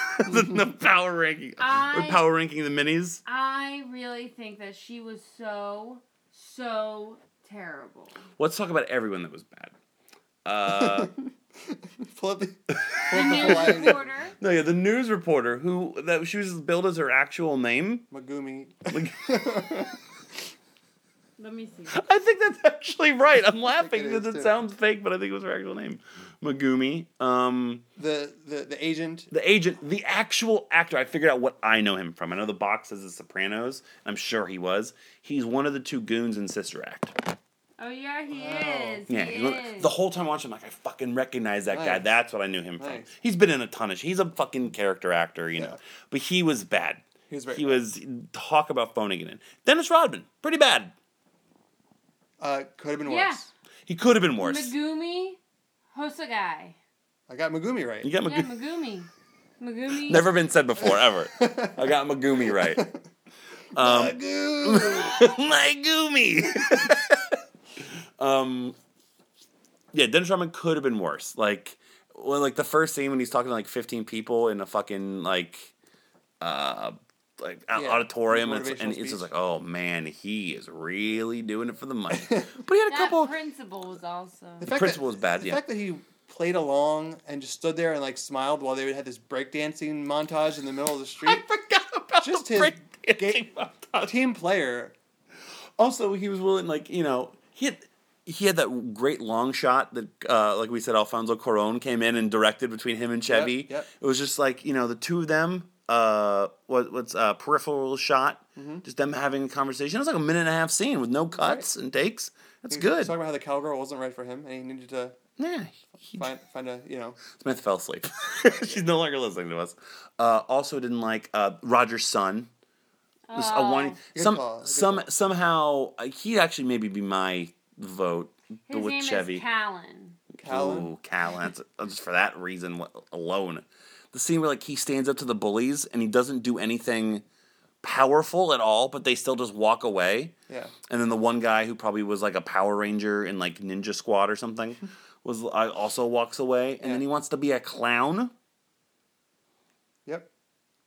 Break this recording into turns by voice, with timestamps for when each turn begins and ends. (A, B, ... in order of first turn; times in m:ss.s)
0:00.2-0:03.2 A
0:01.6-0:02.3 B
0:03.2-0:08.2 B
0:08.4-0:09.7 A
0:10.4-0:11.1 A
0:10.7-0:14.1 C
0:12.8-0:18.1 A
0:13.1-0:14.4 B
0:18.1-0:20.0 C
0:18.9-0:19.6 A
0:21.4-0:22.0 B
0:21.9-0:27.8 A
0:23.8-0:24.6 C
0:28.0-0:29.3 C
0:29.3-0:37.2 A
0:37.8-0:39.9 B
0:38.3-0:39.0 C
0:39.1-0:50.9 A
0:41.7-0:42.1 C
0:42.8-0:43.1 C
0:47.3-0:47.8 C
0:52.4-0:53.5 C
0:53.0-0:53.4 B
0:53.9-0:54.7 A
0:54.4-0:55.4 B
0:55.9-0:56.8 B
0:57.3-0:58.1 C
0:58.0-0:58.5 A
0:58.2-0:59.1 B
0:59.6-1:00.3 B
1:00.0-1:02.8 A
1:00.9-1:01.9 C
1:02.5-1:03.0 C
1:03.8-1:05.3 C
1:03.8-1:07.4 A
1:08.2-1:08.8 A
1:09.9-1:15.7 A
1:16.4-1:23.3 A
1:17.8-1:19.3 C
1:22.9-1:24.7 B
1:24.6-1:31.4 C
1:24.6-1:25.6 A
1:31.2-1:34.2 A
1:32.2-1:33.4 C
1:34.0-1:34.9 C
1:35.8-1:53.1 A
1:43.3-1:43.9 C
1:48.6-1:48.8 C
1:51.4-1:51.7 C
1:52.7-1:55.2 C
1:55.4-1:56.3 A
1:56.2-1:57.2 C
1:57.3-2:02.5 A
1:58.5-1:58.8 C
2:03.3-2:04.0 B
2:03.3-2:09.4 A
2:04.1-2:05.1 C
2:08.7-2:10.2 B
2:10.3-2:17.2 A
2:10.4-2:10.9 C
2:17.8-2:20.3 A
2:20.5-2:20.7 C
2:20.9-2:28.3 A